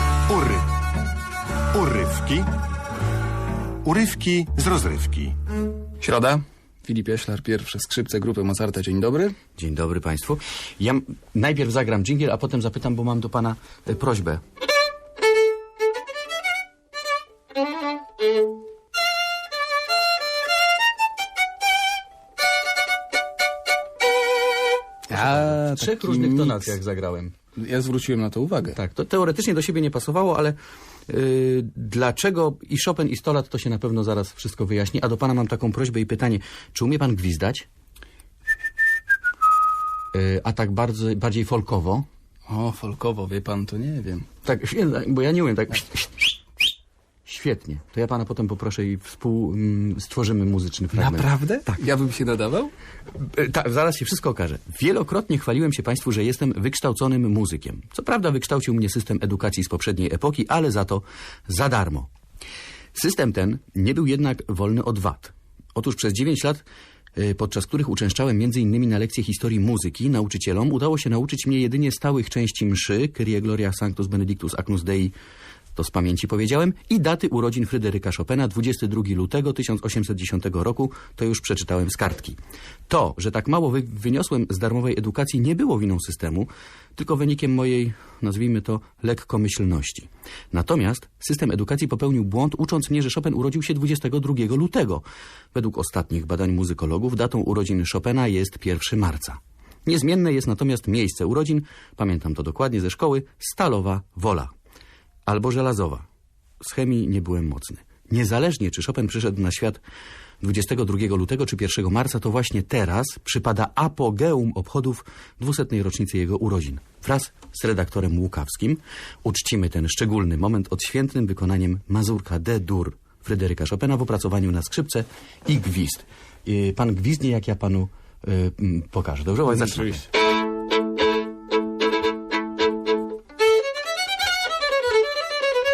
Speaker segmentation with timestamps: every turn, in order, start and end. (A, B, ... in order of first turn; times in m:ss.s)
0:00.3-0:00.7 A
0:01.7-0:02.5 A
0:03.8-0:05.4 A
0:06.0-0:09.4 B
0:09.6-0:14.4 C
0:25.1-0:26.7 B
0:25.1-0:27.4 C
0:27.6-0:28.8 B
0:28.6-0:30.6 C
0:31.1-0:37.6 C
0:40.1-0:42.0 C
0:42.5-0:44.2 B
0:44.4-0:46.1 C
0:47.2-0:51.8 C
0:50.9-0:52.7 B
0:53.1-1:02.1 C
1:02.9-1:06.6 C
1:07.2-1:15.1 C
1:15.8-1:22.4 C
1:22.9-1:44.5 C
1:45.3-1:46.0 C
1:46.6-1:49.8 C
1:50.4-2:10.1 C